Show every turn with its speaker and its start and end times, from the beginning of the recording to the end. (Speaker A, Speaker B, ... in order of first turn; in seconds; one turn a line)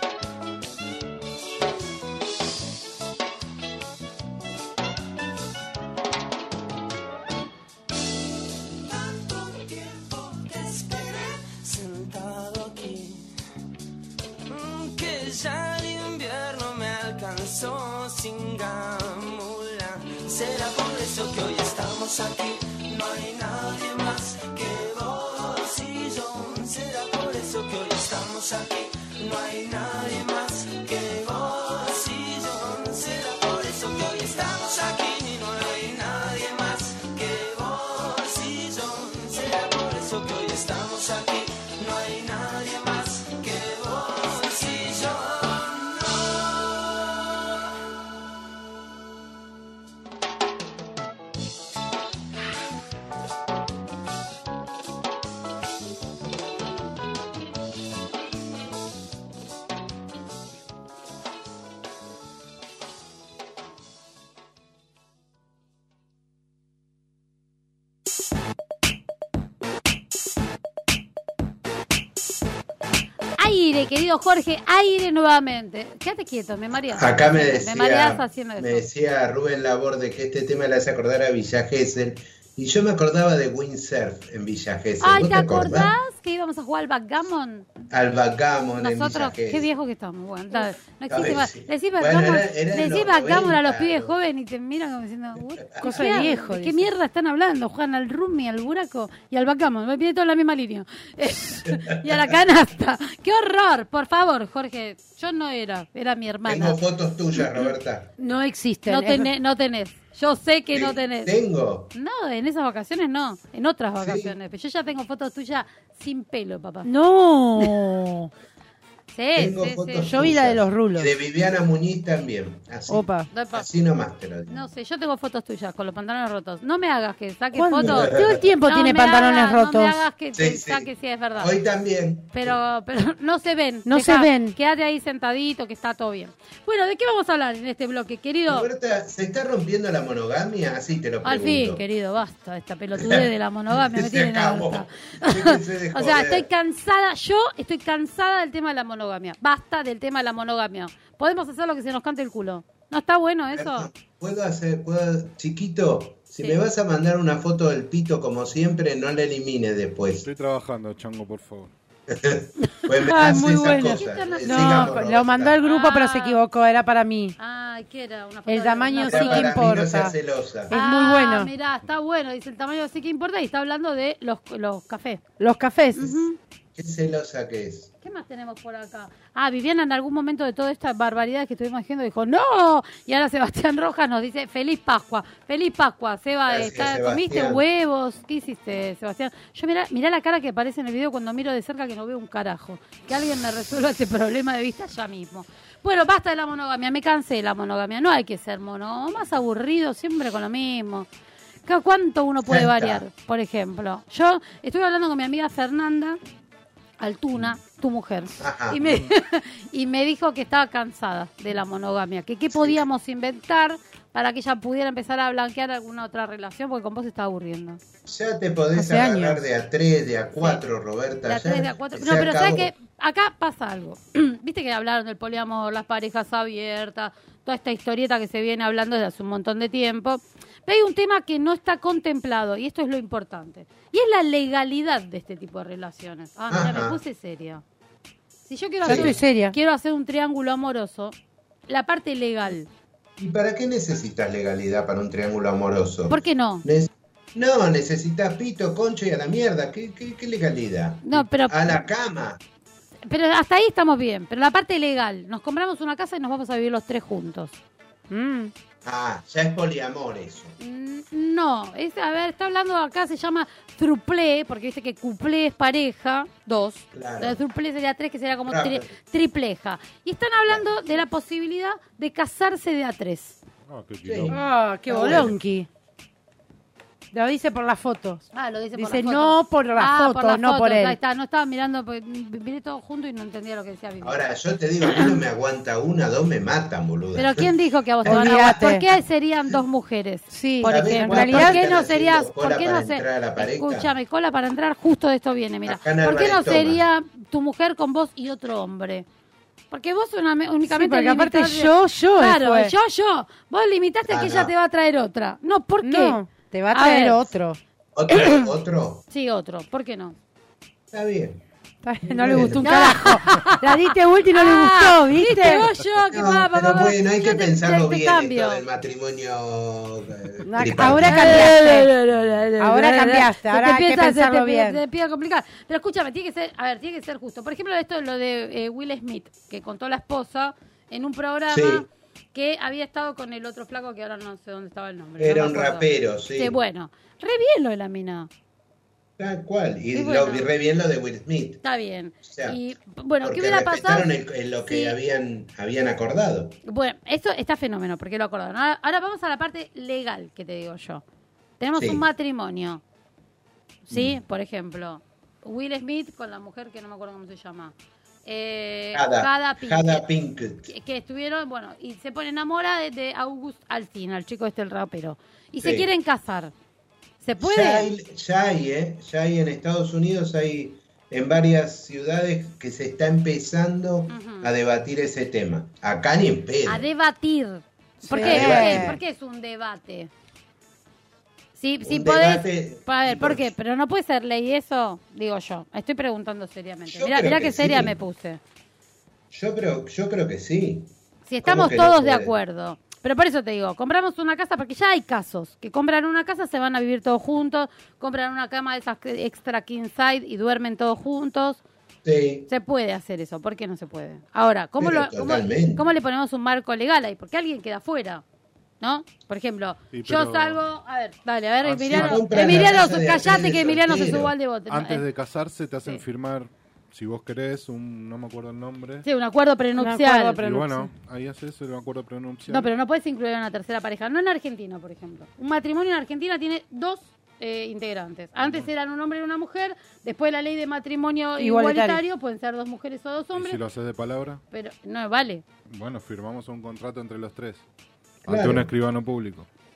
Speaker A: 8.9-13.3
Speaker A: 14.5-47.5
Speaker B: 73.4-78.9
Speaker C: 77.0-85.9
Speaker B: 85.0-87.7
Speaker C: 87.9-89.7
Speaker B: 88.8-106.8
Speaker C: 91.1-94.2
Speaker C: 95.6-95.9
Speaker D: 95.8-96.9
Speaker C: 101.7-102.2
Speaker C: 106.5-108.1
Speaker D: 108.2-109.3
Speaker B: 108.9-111.3
Speaker C: 110.7-111.9
Speaker B: 111.9-116.9
Speaker C: 114.0-114.3
Speaker D: 116.8-118.3
Speaker B: 119.1-120.1
Speaker C: 119.4-124.7
Speaker D: 120.0-121.1
Speaker D: 122.9-123.3
Speaker B: 123.3-123.7
Speaker B: 124.5-131.6
Speaker D: 127.5-130.0
Speaker C: 127.8-128.5
Speaker C: 130.3-132.6
Speaker B: 132.3-138.7
Speaker D: 133.9-134.6
Speaker C: 138.5-141.8
Speaker B: 141.2-153.9
Speaker C: 142.9-146.5
Speaker C: 153.5-160.3
Speaker E: 160.2-161.7
Speaker C: 162.1-165.6
Speaker B: 162.8-165.0
Speaker D: 163.0-167.3
Speaker B: 165.6-166.4
Speaker B: 167.4-169.9
Speaker D: 168.5-170.1
Speaker C: 169.0-170.7
Speaker D: 170.7-171.5
Speaker B: 170.7-175.2
Speaker D: 175.4-176.1
Speaker B: 175.9-176.4
Speaker C: 176.8-177.9
Speaker B: 178.0-201.1
Speaker C: 186.5-187.6
Speaker B: 201.7-206.2
Speaker C: 202.5-203.0
Speaker B: 207.0-217.8
Speaker C: 208.4-209.0
Speaker C: 212.5-212.8
Speaker C: 218.1-222.7
Speaker D: 218.8-219.4
Speaker B: 220.4-220.6
Speaker B: 221.2-237.6
Speaker C: 236.5-237.0
Speaker B: 238.5-241.2
Speaker C: 238.8-239.2
Speaker D: 238.8-239.6
Speaker B: 241.7-242.7
Speaker C: 243.2-252.4
Speaker B: 246.1-246.7
Speaker B: 251.0-251.8
Speaker B: 253.1-257.6
Speaker D: 258.1-258.5
Speaker C: 258.8-260.6
Speaker B: 260.6-273.4
Speaker C: 266.9-267.4
Speaker C: 268.4-268.9
Speaker E: 273.7-274.4
Speaker C: 274.1-274.4
Speaker D: 274.3-275.7
Speaker C: 274.9-275.4
Speaker D: 277.1-281.0
Speaker B: 278.3-284.2
Speaker C: 284.0-287.5
Speaker B: 284.9-285.2
Speaker B: 287.2-299.1
Speaker C: 288.0-288.8
Speaker D: 288.1-288.9
Speaker D: 290.3-291.6
Speaker C: 290.6-293.9
Speaker C: 295.7-296.8
Speaker B: 299.7-306.2
Speaker D: 300.7-302.7
Speaker C: 304.1-304.5
Speaker D: 305.8-307.6
Speaker B: 306.7-307.2
Speaker C: 307.9-309.0
Speaker B: 308.1-308.5
Speaker B: 309.1-310.2
Speaker C: 310.9-311.4
Speaker D: 311.8-315.7
Speaker B: 312.2-318.6
Speaker C: 312.2-312.9
Speaker C: 316.1-321.6
Speaker D: 320.4-321.9
Speaker B: 321.0-338.3
Speaker D: 322.6-324.8
Speaker C: 331.5-331.9
Speaker C: 335.2-336.6
Speaker C: 339.2-341.6
Speaker B: 339.9-340.5
Speaker B: 341.6-344.1
Speaker C: 342.2-342.6
Speaker C: 343.2-346.6
Speaker B: 344.6-344.9
Speaker B: 346.6-351.0
Speaker B: 351.6-352.8
Speaker C: 351.8-352.0
Speaker B: 353.9-357.7
Speaker C: 353.9-354.2
Speaker B: 358.2-360.1
Speaker C: 358.9-360.7
Speaker B: 360.7-366.5
Speaker C: 365.6-365.9
Speaker B: 367.2-367.9
Speaker C: 367.4-376.9
Speaker B: 374.1-374.5
Speaker B: 376.7-380.1
Speaker D: 378.0-379.0
Speaker C: 378.1-379.0
Speaker B: 381.6-388.4
Speaker C: 381.8-383.5
Speaker C: 386.9-388.0
Speaker C: 389.3-390.9
Speaker B: 391.3-401.6
Speaker C: 391.4-392.3
Speaker C: 402.1-402.5
Speaker B: 402.5-408.2
Speaker C: 404.8-405.9
Speaker B: 408.8-415.0
Speaker E: 409.9-410.6
Speaker E: 411.6-412.7
Speaker C: 411.7-414.3
Speaker E: 414.7-419.1
Speaker B: 419.1-420.4
Speaker D: 419.8-420.9
Speaker E: 420.4-422.7
Speaker B: 422.5-433.6
Speaker E: 428.4-428.7
Speaker D: 431.4-432.0
Speaker E: 433.3-434.4
Speaker B: 434.5-435.4
Speaker E: 435.7-437.6
Speaker E: 438.2-439.5
Speaker C: 438.3-438.7